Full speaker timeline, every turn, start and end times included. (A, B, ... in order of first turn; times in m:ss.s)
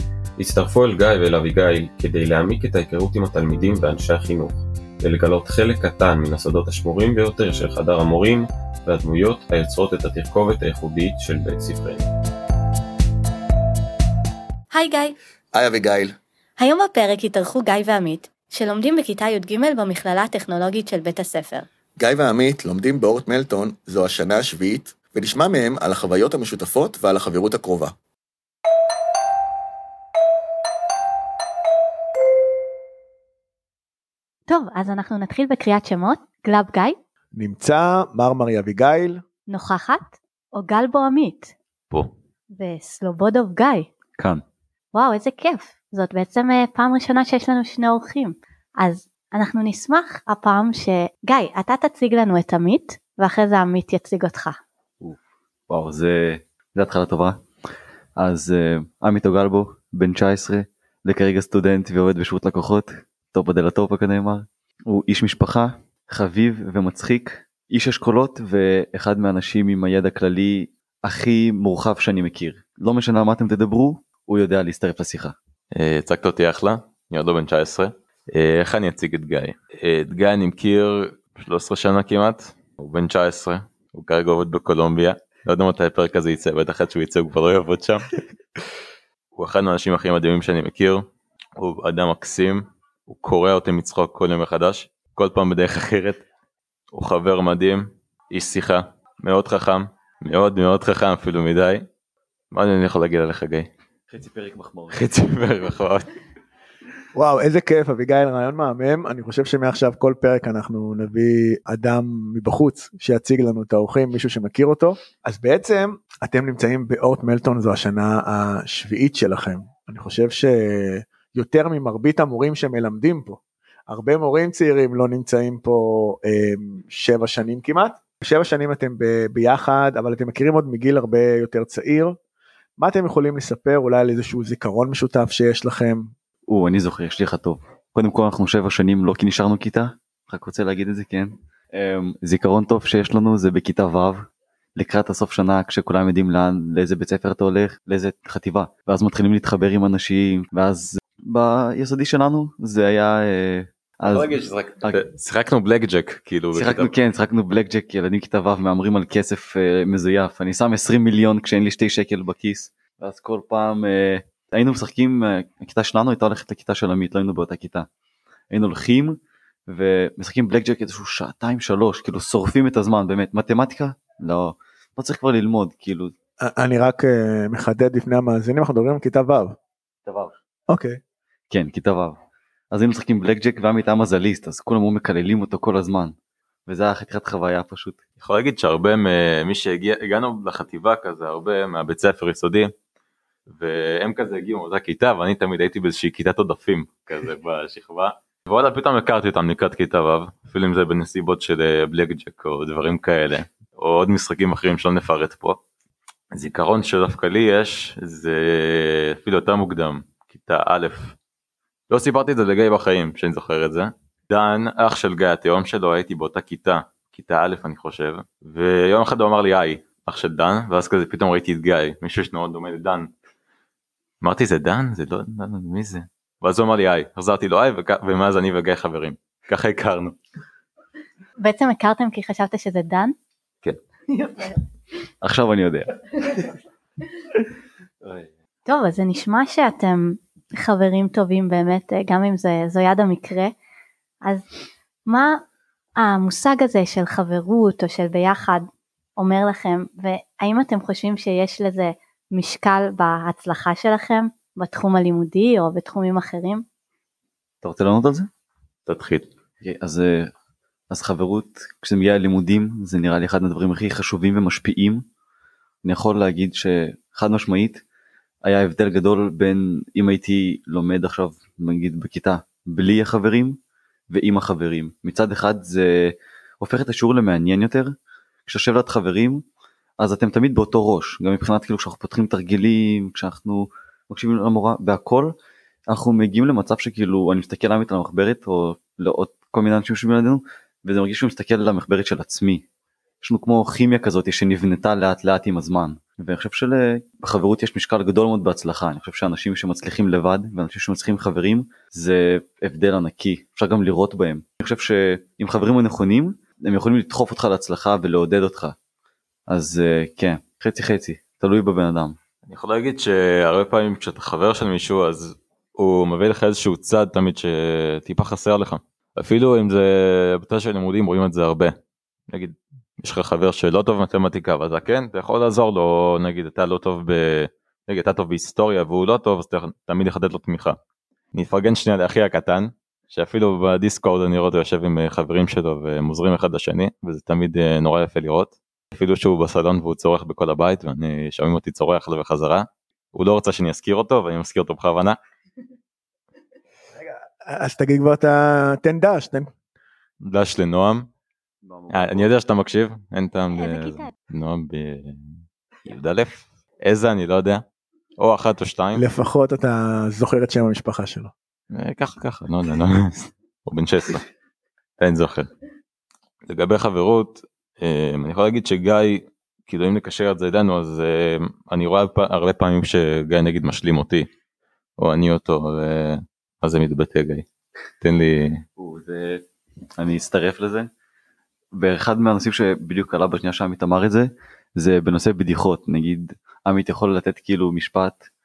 0:00.4-0:12.1 A
0:14.7-0:15.1 B
0:15.6-0:16.1 C
0:16.6-0:21.7 B
0:22.0-0:27.9 C
0:34.5-0:37.0 B
0:37.3-0:39.2 D
0:39.5-0:41.5 B
0:42.5-0:43.9 B
0:44.2-0:44.4 E
0:44.9-0:54.6 B
0:55.7-0:57.4 E
0:58.2-1:15.4 E
1:15.7-1:28.2 F
1:29.4-1:31.0 F
1:31.6-1:36.2 F
1:36.9-1:41.8 F
1:42.5-1:43.7 F
1:44.1-1:45.0 E
1:44.9-1:46.1 F
1:47.1-2:12.2 D
2:12.8-2:16.1 D
2:16.5-2:24.2 E
2:24.8-2:35.0 E
2:34.0-2:37.0 F
2:36.5-2:47.9 E
2:48.5-2:56.1 E
2:56.4-2:59.6 D
3:00.0-3:00.3 E
3:00.7-3:01.0 D
3:01.5-3:02.2 E
3:02.7-3:06.2 E
3:06.7-3:08.0 E
3:08.2-3:12.7 F
3:13.5-3:25.6 F
3:26.3-3:31.1 F
3:31.9-3:43.1 F
3:44.2-3:50.2 F
3:51.4-3:53.1 B
3:54.1-3:54.5 B
3:55.2-3:56.4 E
3:58.0-3:58.3 E
3:58.6-4:03.5 B
4:05.0-4:05.4 B
4:06.0-4:08.6 B
4:09.2-4:16.6 B
4:17.6-4:18.3 E
4:18.9-4:19.3 F
4:19.6-4:20.3 E
4:20.9-4:25.0 E
4:25.8-4:27.8 E
4:28.4-4:33.6 E
4:34.1-4:37.9 E
4:38.5-4:39.4 E
4:40.0-4:45.3 E
4:45.9-4:52.6 E
4:53.2-5:08.7 E
5:09.5-5:12.2 E
5:12.5-5:21.7 F
5:22.3-5:30.8 F
5:31.3-5:45.2 F
5:47.0-5:49.5 D
5:50.2-5:51.1 F
5:51.6-5:52.3 E
5:51.9-5:57.6 F
5:53.6-5:54.1 B
5:58.2-5:59.0 F
5:58.9-6:01.3 D
6:01.7-6:04.2 F
6:05.0-6:05.5 F
6:06.5-6:14.3 F
6:15.0-6:17.4 F
6:18.0-6:18.6 F
6:18.8-6:19.4 E
6:20.0-6:20.9 E
6:21.7-6:28.3 E